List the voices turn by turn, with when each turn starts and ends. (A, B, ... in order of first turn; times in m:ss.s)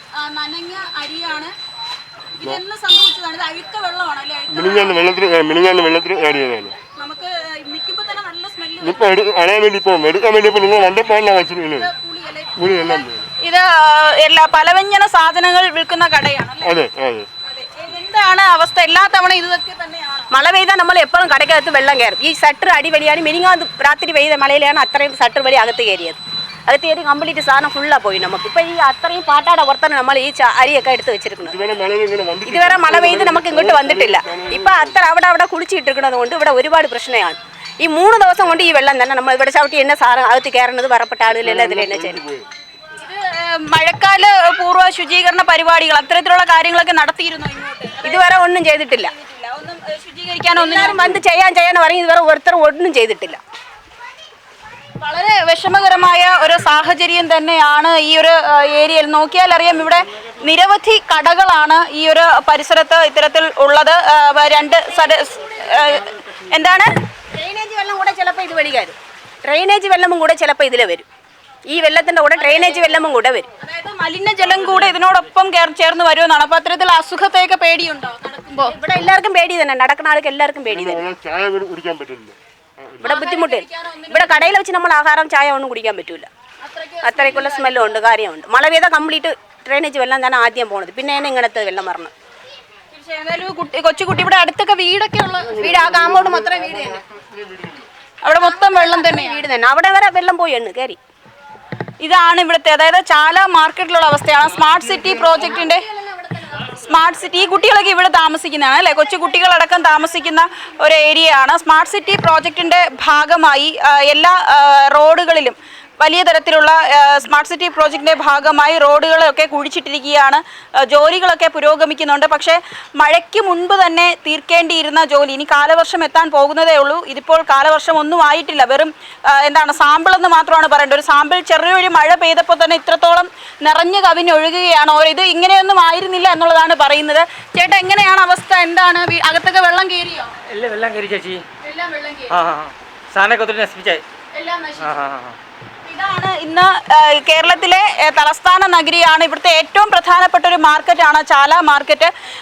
0:00.1-0:01.5 A
0:02.4-0:06.0 A
0:04.5-0:06.7 B
0:06.8-0:09.2 A
0:08.8-0:11.9 B
0:11.3-0:16.8 A
0:12.6-0:13.2 B
0:16.6-0:17.3 B
0:17.4-0:20.3 A
0:20.3-0:31.6 C
0:31.5-0:35.0 B
0:32.4-0:42.2 C
0:41.4-0:42.4 B
0:42.9-0:48.4 A
0:48.0-0:49.1 C
0:49.0-0:51.1 A
0:50.5-0:53.4 C
0:55.0-1:07.0 A
1:07.3-1:11.0 C
1:11.7-1:13.5 C
1:12.4-1:18.7 A
1:18.6-1:21.1 C
1:20.7-1:23.0 B
1:23.0-1:26.3 C
1:23.0-1:24.6 A
1:26.6-1:28.1 A
1:27.0-1:32.1 C
1:32.9-1:35.7 A
1:35.4-1:37.0 C
1:35.7-1:37.8 B
1:38.2-1:39.4 A
1:38.4-1:41.0 C
1:42.0-1:45.8 A
1:45.8-1:46.3 C
1:46.4-2:20.3 A
2:20.5-2:21.4 D
2:21.6-2:22.4 A
2:22.3-2:24.0 D
2:24.3-2:24.9 A
2:24.8-2:25.4 D
2:25.8-2:32.1 A